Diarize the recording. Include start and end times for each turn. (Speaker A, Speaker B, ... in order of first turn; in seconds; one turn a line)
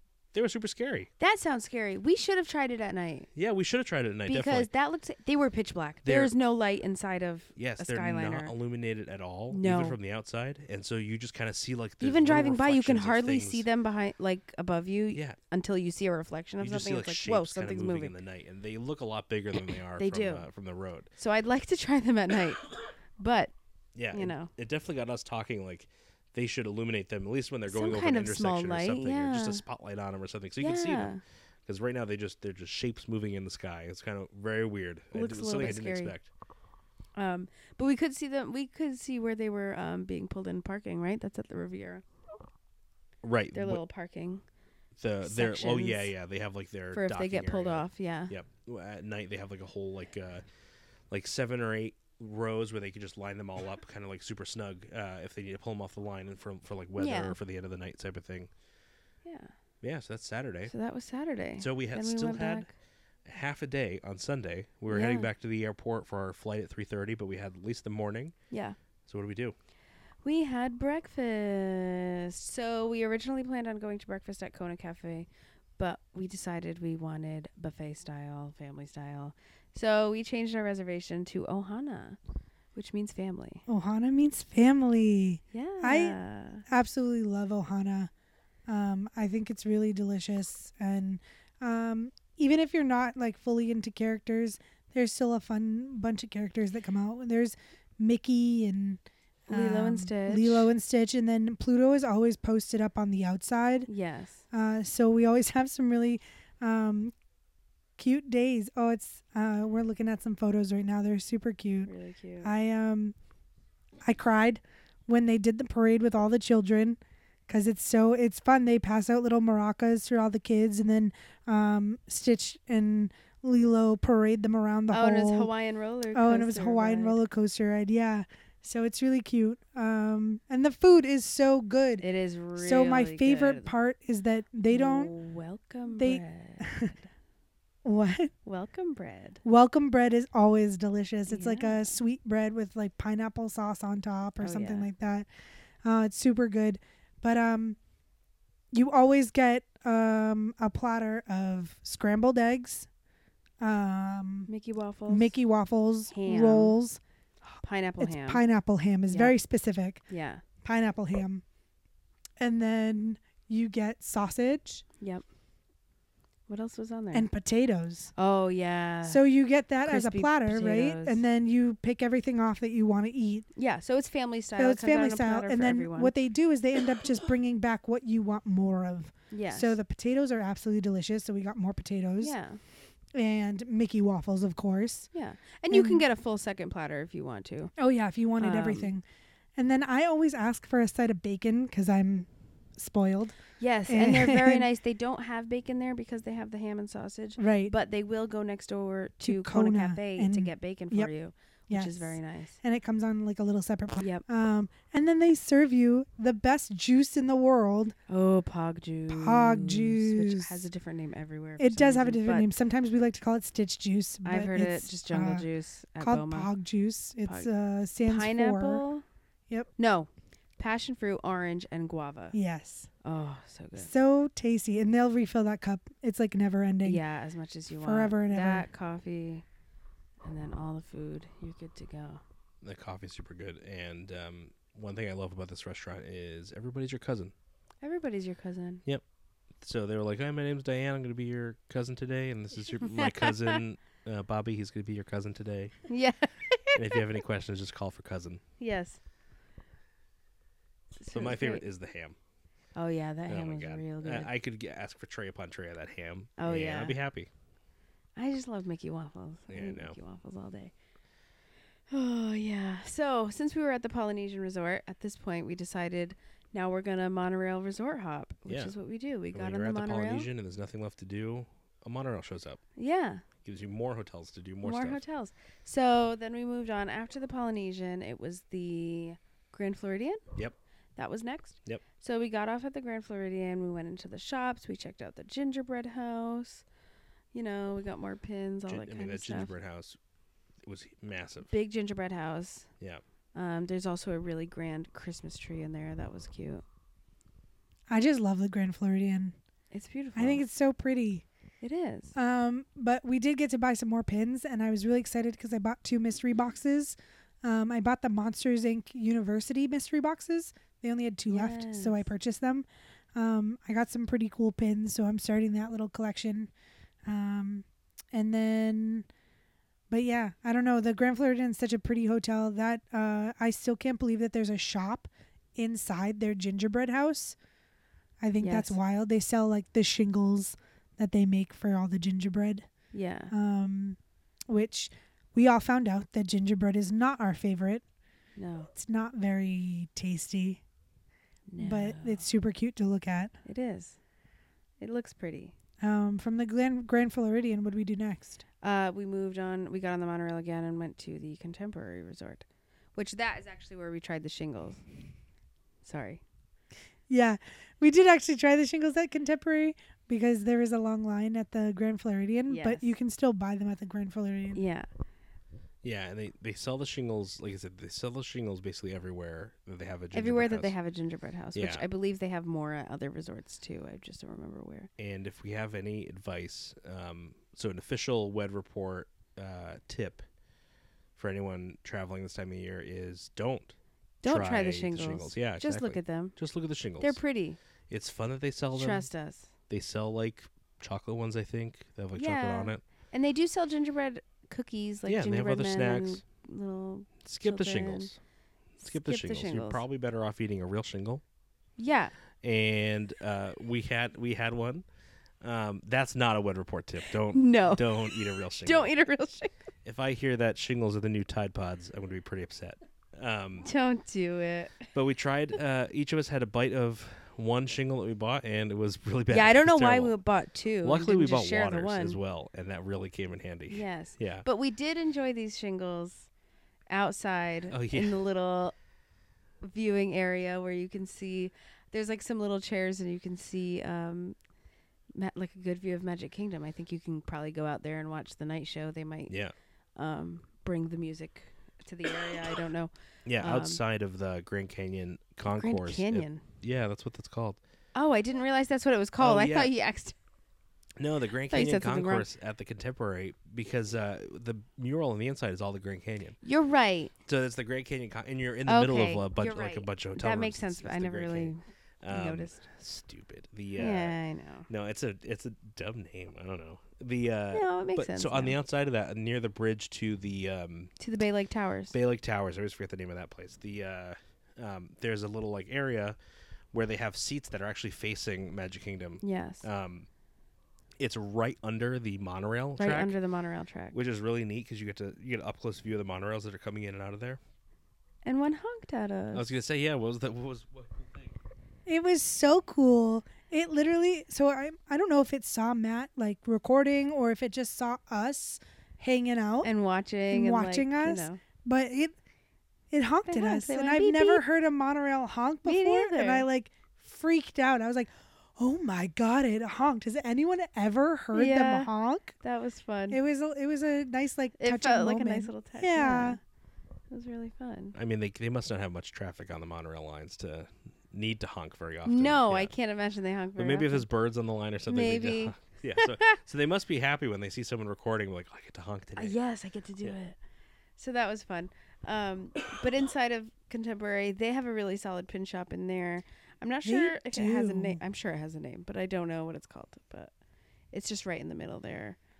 Speaker A: 0.3-1.1
Speaker B: 1.2-3.3
Speaker A: 3.3-4.7
Speaker B: 4.3-8.5
Speaker A: 6.0-6.3
Speaker A: 7.5-13.7
Speaker B: 9.5-10.0
Speaker B: 12.0-18.1
Speaker A: 15.1-15.4
Speaker A: 16.6-21.1
Speaker B: 20.0-20.4
Speaker B: 21.2-22.6
Speaker B: 23.2-23.5
Speaker A: 23.9-31.1
Speaker B: 24.1-24.5
Speaker B: 27.7-29.6
Speaker B: 30.6-31.2
Speaker A: 31.6-36.3
Speaker B: 35.1-36.1
Speaker B: 37.1-42.0
Speaker A: 43.2-43.8
Speaker B: 43.5-44.4
Speaker A: 45.0-50.4
Speaker B: 45.2-46.1
Speaker B: 46.9-48.3
Speaker A: 51.1-58.5
Speaker B: 57.0-57.4
Speaker B: 59.2-59.5
Speaker A: 59.8-60.7
Speaker B: 60.7-62.7
Speaker A: 61.6-62.7
Speaker A: 63.2-68.3
Speaker B: 64.9-65.3
Speaker B: 68.5-68.8
Speaker A: 69.1-69.5
Speaker B: 70.2-82.2
Speaker B: 82.7-83.6
Speaker C: 83.7-88.1
Speaker B: 85.5-86.6
Speaker C: 88.7-103.9
Speaker B: 99.5-100.7
Speaker B: 103.9-104.4
Speaker C: 104.5-107.1
Speaker C: 108.0-113.1
Speaker B: 111.8-112.5
Speaker C: 114.0-125.5
Speaker B: 124.9-127.2
Speaker C: 126.1-132.0
Speaker B: 132.0-133.7
Speaker C: 132.6-135.1
Speaker B: 134.7-137.1
Speaker C: 135.9-136.9
Speaker C: 137.8-138.3
Speaker B: 138.4-139.4
Speaker C: 139.4-145.3
Speaker B: 141.3-142.0
Speaker B: 144.4-144.9
Speaker C: 145.8-147.8
Speaker C: 148.7-152.9
Speaker C: 153.6-154.5
Speaker B: 154.5-155.3
Speaker C: 155.1-157.0
Speaker B: 156.1-156.8
Speaker B: 157.6-158.4
Speaker C: 158.0-160.0
Speaker B: 159.1-159.3
Speaker B: 160.1-160.4
Speaker C: 160.6-161.4
Speaker C: 162.4-164.8
Speaker B: 166.5-167.3
Speaker C: 167.1-168.1
Speaker B: 168.2-169.2
Speaker C: 169.0-173.4
Speaker B: 169.8-171.2
Speaker B: 173.6-176.1
Speaker C: 174.6-182.3
Speaker B: 179.3-179.8
Speaker B: 182.2-182.6
Speaker C: 183.1-185.1
Speaker B: 185.1-187.7
Speaker C: 185.7-186.0
Speaker C: 187.8-189.0
Speaker B: 188.4-188.9
Speaker C: 189.6-193.4
Speaker B: 193.6-202.6
Speaker C: 193.9-194.6
Speaker C: 197.4-197.7
Speaker C: 199.2-201.1
Speaker C: 201.7-207.9
Speaker B: 208.1-212.5
Speaker C: 209.1-210.6
Speaker C: 211.6-215.4
Speaker B: 214.2-216.5
Speaker C: 216.0-218.8
Speaker B: 218.0-219.0
Speaker B: 219.8-222.3
Speaker C: 222.3-222.9
Speaker B: 223.0-223.9
Speaker C: 223.8-227.0
Speaker B: 226.8-229.4
Speaker C: 227.7-228.7
Speaker B: 230.2-232.2
Speaker A: 232.6-237.3
Speaker B: 237.8-238.8
Speaker A: 239.6-245.8
Speaker B: 242.8-243.6
Speaker B: 245.9-247.0
Speaker A: 246.7-248.4
Speaker B: 248.6-249.0
Speaker B: 251.0-251.6
Speaker A: 251.1-252.2
Speaker B: 252.7-254.3
Speaker A: 253.3-257.3
Speaker B: 256.4-257.0
Speaker B: 258.1-260.7
Speaker A: 259.5-259.9
Speaker B: 261.9-270.3
Speaker A: 268.5-268.7
Speaker A: 269.3-272.6
Speaker B: 272.8-273.2
Speaker A: 273.4-275.0
Speaker B: 274.6-280.2
Speaker B: 280.9-286.6
Speaker B: 287.3-289.5
Speaker A: 288.7-290.0
Speaker A: 290.6-291.5
Speaker B: 291.5-292.7
Speaker B: 293.3-296.6
Speaker C: 297.9-299.4
Speaker B: 299.7-300.4
Speaker C: 300.1-301.2
Speaker B: 301.6-302.1
Speaker C: 302.1-316.5
Speaker B: 311.3-312.1
Speaker C: 317.1-319.1
Speaker C: 319.9-327.4
Speaker C: 328.2-332.7
Speaker B: 328.4-328.8
Speaker B: 332.9-333.3
Speaker C: 333.3-334.0
Speaker C: 334.5-337.8
Speaker B: 338.4-338.7
Speaker C: 338.7-340.6
Speaker B: 341.5-342.2
Speaker C: 341.6-343.3
Speaker B: 343.4-344.0
Speaker B: 344.8-345.5
Speaker C: 345.8-348.4
Speaker B: 348.6-352.4
Speaker B: 352.9-354.8
Speaker B: 355.8-356.2
Speaker C: 357.1-364.6
Speaker B: 362.5-362.9
Speaker B: 364.5-364.9
Speaker A: 365.8-370.7
Speaker B: 370.1-374.9
Speaker A: 371.5-371.8
Speaker A: 375.0-380.2
Speaker A: 381.1-387.2
Speaker B: 384.2-386.3
Speaker B: 387.0-387.6
Speaker A: 387.9-389.1
Speaker B: 388.7-389.5
Speaker A: 389.7-392.8
Speaker B: 392.1-398.1
Speaker A: 395.1-396.2
Speaker A: 397.2-398.2
Speaker B: 398.8-399.8
Speaker A: 398.8-401.2
Speaker B: 401.8-402.1
Speaker A: 402.4-404.8
Speaker A: 405.4-408.9
Speaker B: 407.3-409.5
Speaker A: 409.8-413.7
Speaker B: 413.6-414.9
Speaker A: 414.9-420.1
Speaker B: 419.3-422.2
Speaker A: 420.8-424.4
Speaker B: 423.7-426.3
Speaker B: 426.9-428.7
Speaker A: 427.7-428.2
Speaker B: 429.6-434.4
Speaker B: 435.1-439.3
Speaker B: 439.9-443.8
Speaker A: 443.2-447.6
Speaker B: 445.5-446.4
Speaker B: 447.9-450.1
Speaker A: 449.2-449.7
Speaker A: 451.0-456.4
Speaker B: 451.5-452.3
Speaker B: 456.4-457.1
Speaker A: 457.3-464.1
Speaker B: 458.6-462.6
Speaker B: 463.8-464.7
Speaker A: 464.7-470.9
Speaker B: 467.5-468.6
Speaker B: 471.0-471.9
Speaker A: 471.9-476.2
Speaker A: 476.7-480.1
Speaker B: 479.2-479.6
Speaker A: 481.0-483.2
Speaker B: 482.8-484.0
Speaker A: 483.9-487.4
Speaker B: 488.2-489.4
Speaker A: 489.3-491.3
Speaker C: 491.9-499.7
Speaker B: 499.6-501.4
Speaker C: 500.3-502.1
Speaker C: 502.9-512.3
Speaker B: 503.2-504.4
Speaker B: 505.6-506.5
Speaker B: 511.3-511.9
Speaker B: 512.4-513.2
Speaker C: 513.1-516.4
Speaker B: 514.6-516.4
Speaker B: 517.1-518.0
Speaker A: 517.9-522.7
Speaker B: 522.0-524.0
Speaker A: 523.6-529.4
Speaker B: 524.9-526.4
Speaker B: 529.1-530.4
Speaker B: 531.0-540.3
Speaker C: 536.8-538.0
Speaker B: 540.9-542.2